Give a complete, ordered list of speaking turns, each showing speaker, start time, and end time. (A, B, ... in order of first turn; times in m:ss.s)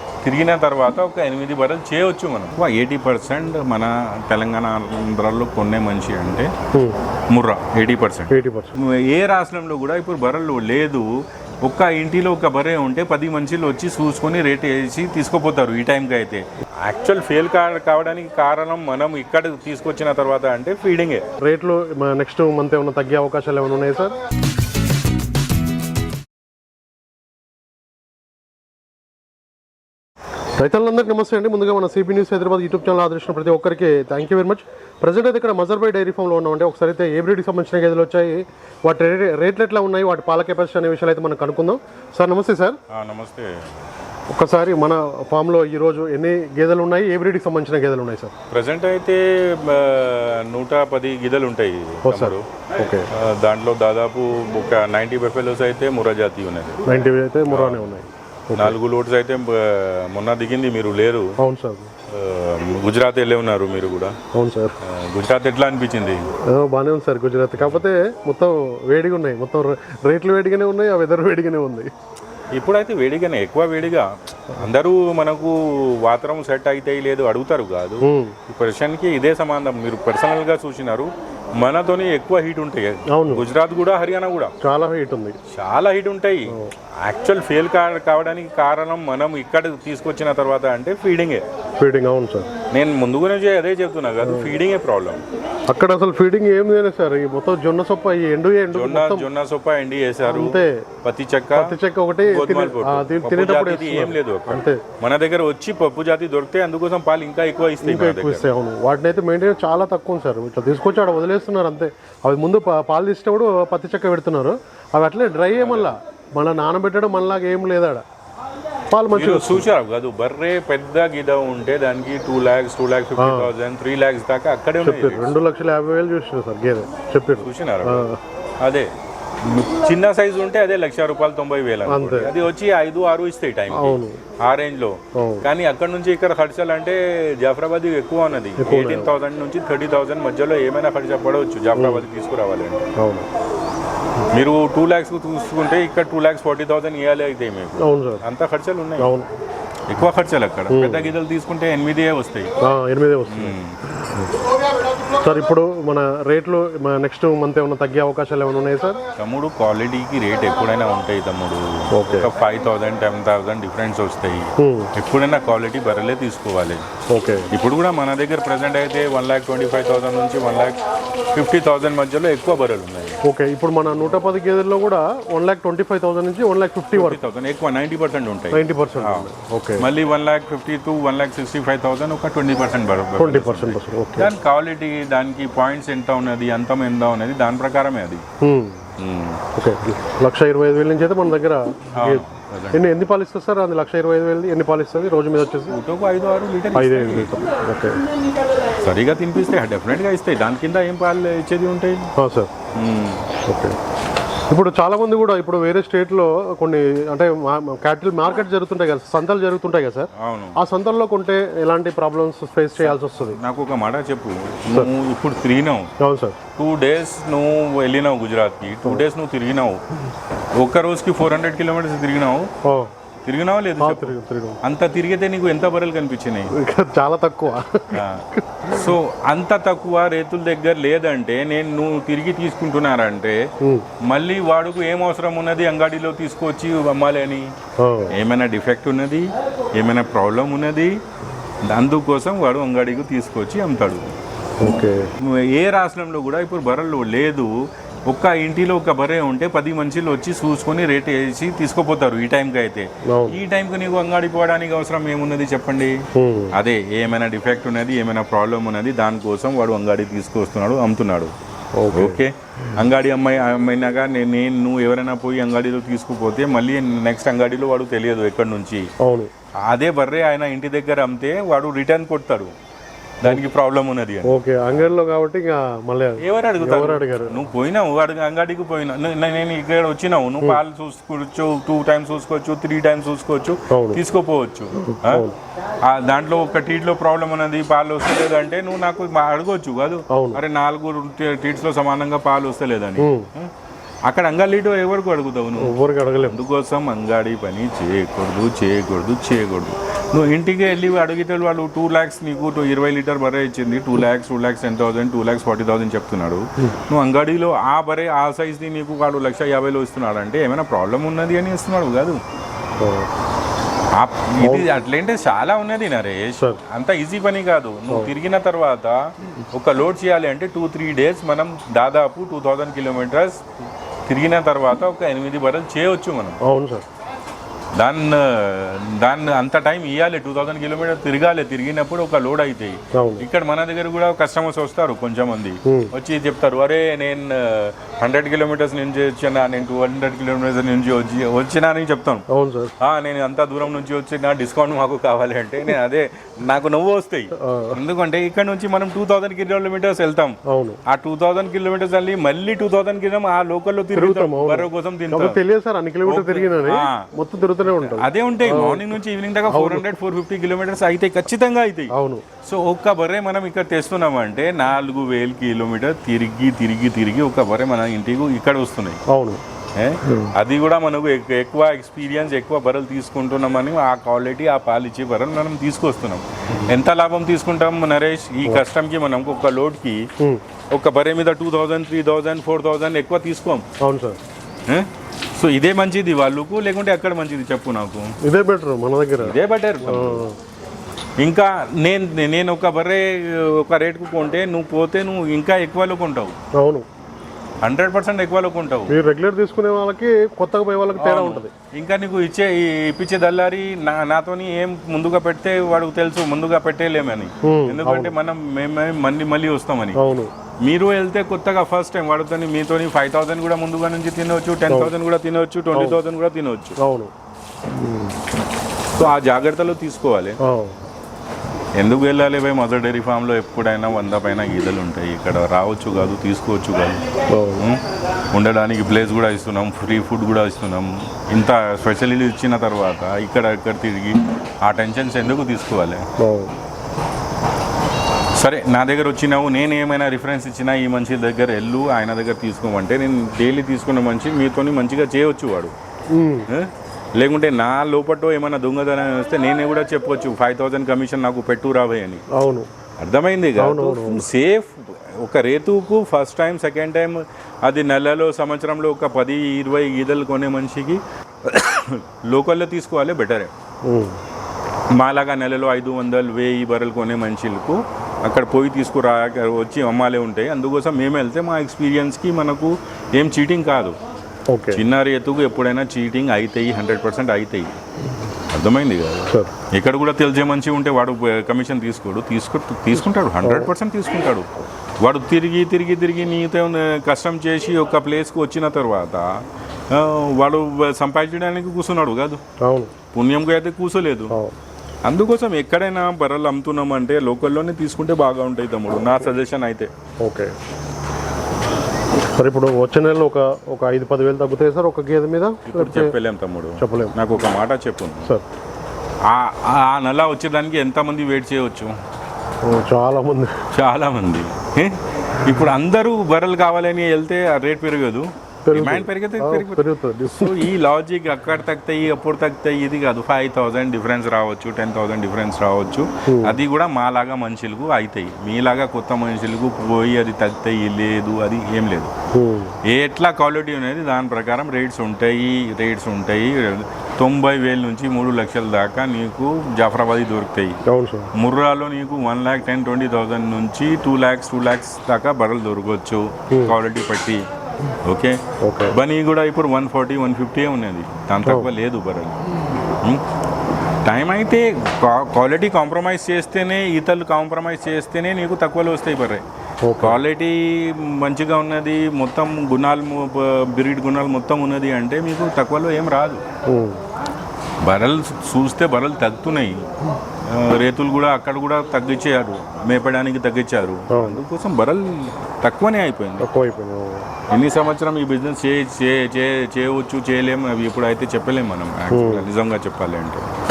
0:00.2-0:06.5 A
0:07.3-0:11.1 A
0:08.3-0:08.8 B
0:11.6-0:21.2 A
0:21.4-0:24.1 B
0:30.6-0:42.8 B
0:42.9-0:43.7 A
0:44.3-0:48.3 B
0:48.5-0:52.4 A
0:52.0-0:53.0 B
0:53.1-0:56.8 A
0:56.8-0:58.8 B
0:57.4-0:57.9 A
0:58.6-1:01.4 A
1:01.4-1:01.9 B
1:02.1-1:04.1 A
1:04.3-1:04.8 B
1:04.8-1:06.2 A
1:06.5-1:11.9 B
1:12.5-1:24.5 A
1:18.0-1:18.4 B
1:23.1-1:23.4 B
1:24.6-1:25.4 B
1:25.5-1:31.4 A
1:31.8-1:32.5 B
1:32.7-1:35.2 A
1:34.2-1:34.6 B
1:35.7-1:39.3 B
1:38.7-1:48.4 A
1:40.3-1:40.8 B
1:41.5-1:44.8 B
1:47.8-1:58.0 B
1:55.6-1:55.9 A
1:58.9-1:59.6 B
1:59.1-2:05.4 A
2:03.2-2:03.5 B
2:04.8-2:08.2 B
2:07.4-2:08.0 A
2:08.6-2:08.9 A
2:09.4-2:22.8 A
2:11.8-2:12.3 B
2:13.7-2:14.2 B
2:15.1-2:15.5 B
2:18.6-2:19.1 B
2:21.8-2:22.0 B
2:23.0-2:23.3 B
2:24.3-2:29.1 A
2:27.8-2:28.2 B
2:29.0-2:29.3 B
2:29.9-2:32.5 A
2:30.7-2:31.1 B
2:32.6-2:34.3 B
2:33.3-2:33.8 A
2:35.2-2:39.0 B
2:39.2-2:46.8 A
2:41.9-2:42.3 B
2:44.6-2:44.9 B
2:47.1-2:47.5 B
2:47.5-2:50.8 A
2:51.3-2:53.1 A
2:53.2-2:57.2 B
2:56.9-3:08.2 A
2:58.5-2:59.9 B
3:03.2-3:04.3 B
3:08.4-3:08.8 B
3:09.0-3:09.4 A
3:09.6-3:15.8 B
3:11.9-3:12.8 A
3:15.7-3:17.3 A
3:16.7-3:18.0 B
3:18.8-3:22.1 A
3:22.2-3:22.5 B
3:22.7-3:23.2 A
3:23.5-3:23.8 B
3:24.5-3:33.4 B
3:30.1-3:30.6 A
3:32.8-3:35.9 A
3:36.0-3:36.4 B
3:36.6-3:39.8 A
3:40.6-3:42.5 A
3:42.6-3:42.9 B
3:43.2-3:46.5 A
3:43.8-3:44.6 B
3:46.5-3:48.9 B
3:47.9-3:53.4 A
3:54.0-3:57.5 A
3:57.8-3:58.1 B
3:58.1-4:01.0 A
4:01.6-4:04.0 A
4:04.6-4:05.1 B
4:05.2-4:07.5 A
4:08.1-4:16.0 A
4:13.1-4:13.4 B
4:16.2-4:16.5 B
4:16.5-4:21.3 A
4:21.8-4:22.2 B
4:21.9-4:28.9 A
4:29.0-4:29.3 B
4:29.6-4:32.5 A
4:33.2-4:34.3 A
4:34.2-4:37.4 B
4:36.2-4:45.3 A
4:43.7-4:44.0 B
4:44.8-4:45.4 B
4:45.8-4:53.5 A
4:50.1-4:50.4 B
4:53.0-4:53.3 B
4:54.0-5:12.2 A
4:55.6-4:56.4 B
5:12.8-5:13.1 B
5:13.9-5:23.4 A
5:14.4-5:14.7 B
5:17.9-5:18.1 B
5:24.1-5:26.4 A
5:26.4-5:26.8 B
5:27.8-5:42.2 A
5:32.9-5:33.2 B
5:42.3-5:42.7 B
5:42.8-5:55.4 A
5:47.4-5:47.8 B
5:50.5-5:50.8 B
5:53.9-5:59.0 B
5:56.0-5:57.1 A
5:57.7-6:09.0 A
5:59.5-5:59.9 B
6:01.9-6:02.2 B
6:09.1-6:09.4 B
6:09.8-6:20.1 A
6:20.7-6:23.6 A
6:23.8-6:24.2 B
6:24.7-6:28.1 A
6:28.2-6:30.4 B
6:29.2-6:30.2 A
6:31.2-6:36.4 A
6:36.6-6:36.8 B
6:37.6-6:39.0 A
6:38.9-6:41.5 B
6:41.0-6:50.0 A
6:47.4-6:48.1 B
6:50.0-6:50.3 B
6:50.6-6:56.8 A
6:55.7-6:56.0 B
6:56.8-6:57.1 B
6:57.7-6:58.2 B
6:59.0-7:00.4 A
7:00.4-7:00.8 B
7:01.8-7:07.0 A
7:07.3-7:07.6 B
7:08.3-7:16.0 A
7:16.2-7:16.5 B
7:18.4-7:25.7 A
7:26.1-7:26.5 B
7:26.5-7:32.2 A
7:32.3-7:32.7 B
7:33.0-7:43.5 A
7:33.6-7:34.2 B
7:43.8-7:44.2 B
7:44.9-7:54.0 A
7:54.5-7:54.8 B
7:54.7-7:57.7 A
7:58.5-8:09.3 A
8:03.0-8:03.7 B
8:09.9-8:12.4 A
8:12.6-8:12.9 B
8:13.1-8:14.3 A
8:14.3-8:14.6 B
8:15.0-8:19.9 A
8:20.2-8:20.5 B
8:22.4-8:26.1 B
8:25.7-8:28.3 A
8:26.8-8:27.1 B
8:29.3-8:32.0 A
8:32.6-8:33.6 B
8:33.7-8:52.1 A
8:38.6-8:40.7 B
8:46.3-8:46.6 B
8:52.3-8:52.8 B
8:52.8-9:00.8 A
9:00.9-9:01.3 B
9:01.3-9:07.4 A
9:06.5-9:06.8 B
9:08.0-9:08.4 A
9:08.6-9:09.0 B
9:08.9-9:13.2 A
9:11.4-9:11.7 B
9:14.0-9:19.4 A
9:19.8-9:20.2 B
9:20.0-9:26.4 A
9:26.7-9:27.0 B
9:27.8-9:29.8 A
9:30.4-9:36.4 A
9:34.1-9:34.4 B
9:36.4-9:37.3 B
9:37.5-9:43.5 A
9:42.1-9:42.5 B